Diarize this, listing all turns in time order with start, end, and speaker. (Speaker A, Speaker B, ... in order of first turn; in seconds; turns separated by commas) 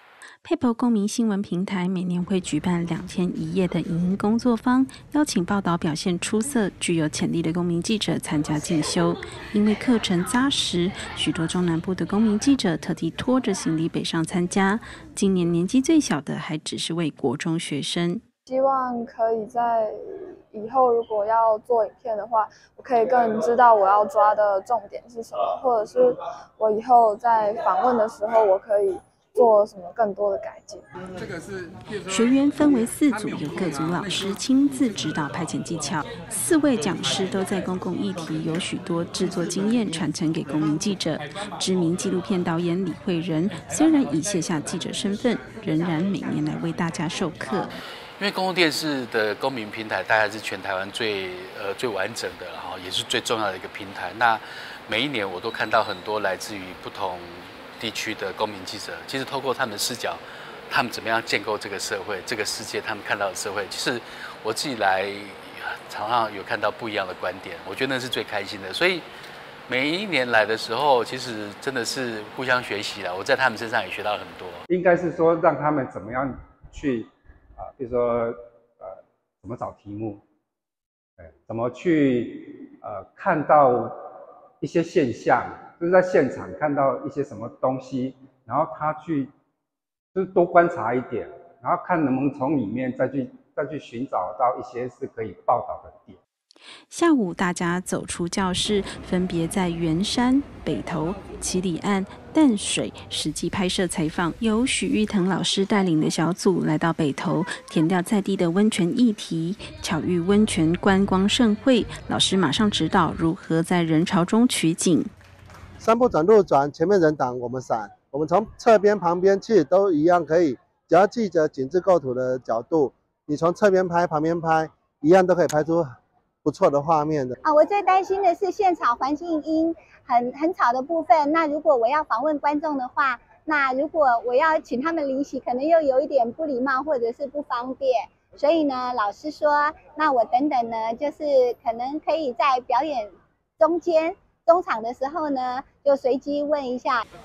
Speaker A: 0.4-18.2, Speaker B: 18.4-19.9, Speaker B: 20.5-30.8, Speaker A: 32.1-47.7, Speaker C: 48.2-69.0, Speaker C: 69.7-74.6, Speaker D: 74.7-80.2, Speaker D: 81.2-84.0, Speaker D: 84.6-89.3, Speaker D: 90.1-96.2, Speaker A: 96.9-115.1, Speaker E: 115.8-125.9, Speaker E: 126.4-127.3, Speaker F: 127.4-147.0